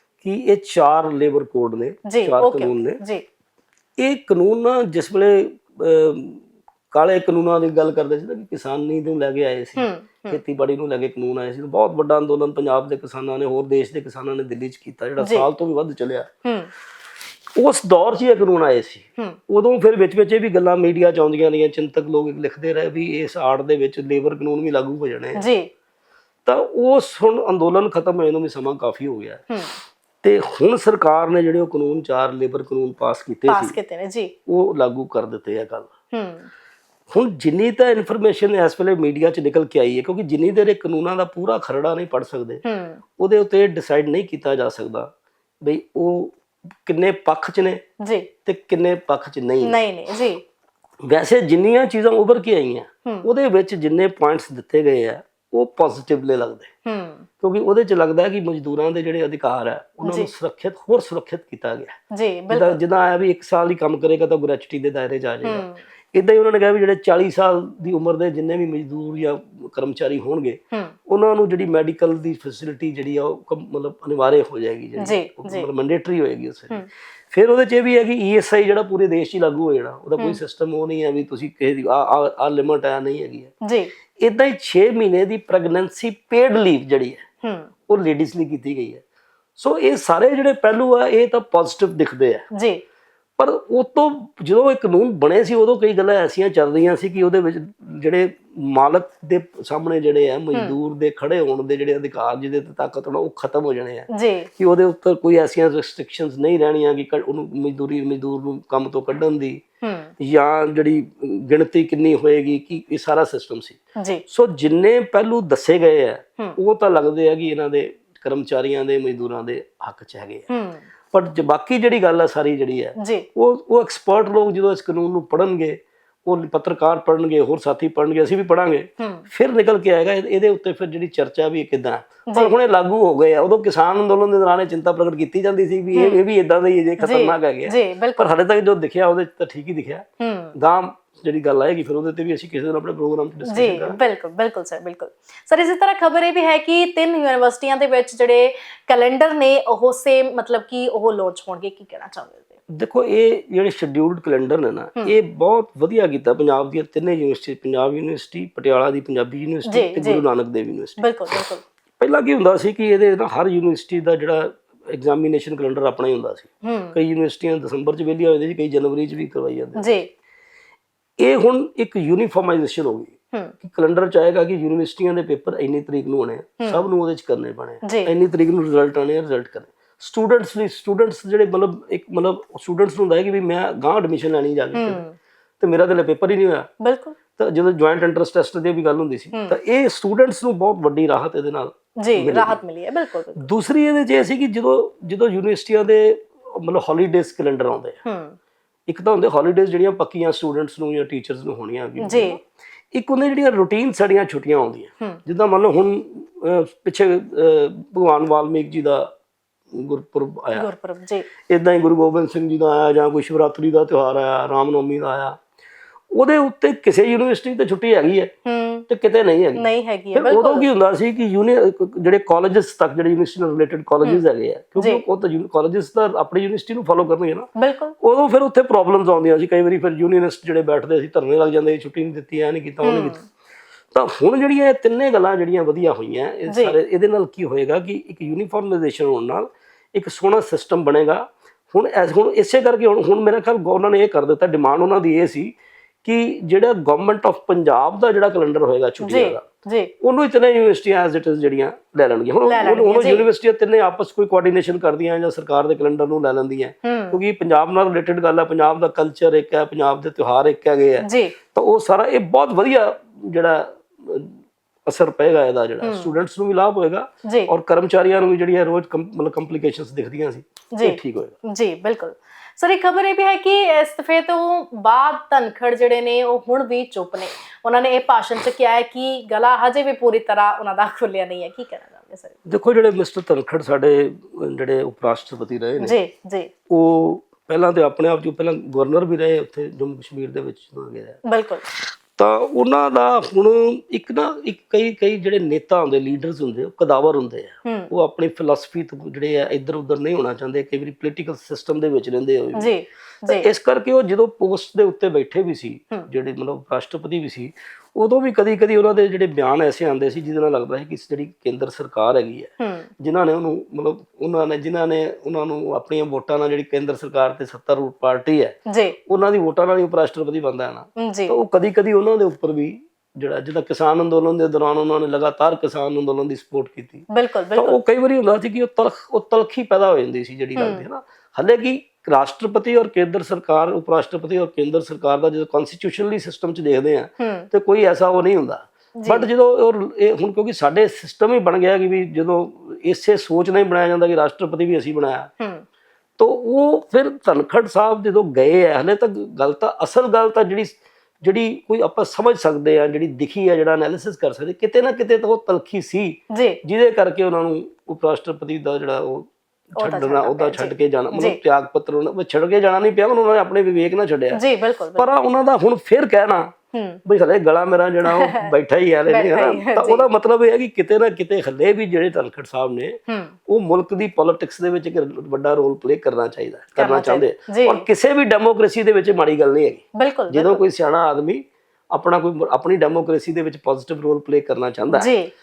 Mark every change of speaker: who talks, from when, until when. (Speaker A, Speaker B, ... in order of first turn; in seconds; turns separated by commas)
Speaker A: 0.2-3.0, Speaker B: 2.0-3.2, Speaker A: 4.0-16.3, Speaker B: 9.8-10.4, Speaker B: 15.2-15.5, Speaker B: 16.4-16.7, Speaker A: 17.6-25.4, Speaker B: 25.4-25.7, Speaker A: 26.4-29.4, Speaker B: 29.5-29.8, Speaker A: 30.2-33.8, Speaker B: 33.5-34.3, Speaker A: 34.5-35.9, Speaker B: 36.1-36.5, Speaker A: 37.1-42.6, Speaker B: 42.6-43.0, Speaker A: 43.2-45.1, Speaker A: 45.6-47.8, Speaker B: 48.0-48.3, Speaker A: 48.5-49.8, Speaker B: 49.6-50.4, Speaker A: 51.0-56.7, Speaker B: 56.8-57.3, Speaker A: 57.4-62.0, Speaker B: 60.0-60.3, Speaker B: 62.1-62.8, Speaker A: 62.5-83.5, Speaker B: 65.4-65.8, Speaker B: 75.0-75.7, Speaker B: 83.6-83.9, Speaker A: 84.2-87.2, Speaker B: 87.4-87.7, Speaker A: 87.9-89.0, Speaker A: 89.6-92.5, Speaker B: 92.5-92.8, Speaker A: 93.4-109.6, Speaker B: 104.1-104.5, Speaker B: 109.8-110.1, Speaker A: 110.2-120.5, Speaker B: 114.0-114.2, Speaker B: 120.5-120.8, Speaker A: 121.1-144.0, Speaker B: 123.0-123.2, Speaker B: 129.0-129.2, Speaker B: 132.3-132.5, Speaker B: 135.9-136.2, Speaker B: 137.0-138.3, Speaker B: 140.2-140.5, Speaker B: 143.5-152.6, Speaker A: 152.7-170.0, Speaker B: 159.7-160.2, Speaker B: 161.0-161.6, Speaker B: 166.6-167.0, Speaker B: 169.8-170.1, Speaker A: 171.2-185.0, Speaker B: 176.6-176.8, Speaker B: 177.8-178.1, Speaker B: 184.7-185.2, Speaker A: 185.6-186.7, Speaker B: 186.8-187.2, Speaker A: 187.4-192.6, Speaker B: 189.3-189.6, Speaker B: 192.0-193.5, Speaker A: 193.4-198.0, Speaker B: 198.0-198.4, Speaker A: 198.9-202.4, Speaker B: 202.0-202.4, Speaker A: 202.9-209.1, Speaker A: 209.7-210.7, Speaker B: 210.5-211.3, Speaker A: 211.5-215.4, Speaker A: 216.1-218.3, Speaker B: 218.4-218.8, Speaker A: 218.9-227.5, Speaker B: 219.6-220.7, Speaker B: 224.8-225.0, Speaker B: 227.6-227.9, Speaker A: 228.0-233.2, Speaker B: 232.8-233.2, Speaker A: 233.9-249.4, Speaker B: 236.5-236.8, Speaker B: 249.0-249.9, Speaker A: 250.0-271.4, Speaker B: 252.4-253.2, Speaker B: 256.8-257.2, Speaker B: 261.0-261.4, Speaker B: 265.8-266.1, Speaker B: 267.2-267.5, Speaker B: 270.7-282.4, Speaker A: 282.4-286.0, Speaker B: 285.8-286.5, Speaker A: 286.7-291.2, Speaker B: 291.2-291.6, Speaker A: 291.7-302.7, Speaker B: 297.6-297.9, Speaker B: 302.6-303.5, Speaker A: 303.2-318.6, Speaker B: 312.6-312.9, Speaker B: 318.7-319.0, Speaker A: 319.1-345.3, Speaker B: 321.0-321.4, Speaker B: 327.1-327.8, Speaker B: 330.6-330.8, Speaker B: 337.2-337.5, Speaker B: 339.0-339.3, Speaker B: 345.4-345.6, Speaker A: 346.2-364.4, Speaker B: 356.3-356.6, Speaker B: 359.8-361.4, Speaker B: 364.3-365.1, Speaker A: 364.9-366.5, Speaker B: 366.7-367.0, Speaker A: 367.1-373.0, Speaker B: 368.0-368.5, Speaker B: 369.1-370.1, Speaker B: 373.1-373.4, Speaker A: 373.5-385.1, Speaker B: 376.8-377.8, Speaker B: 379.9-380.6, Speaker B: 384.9-385.3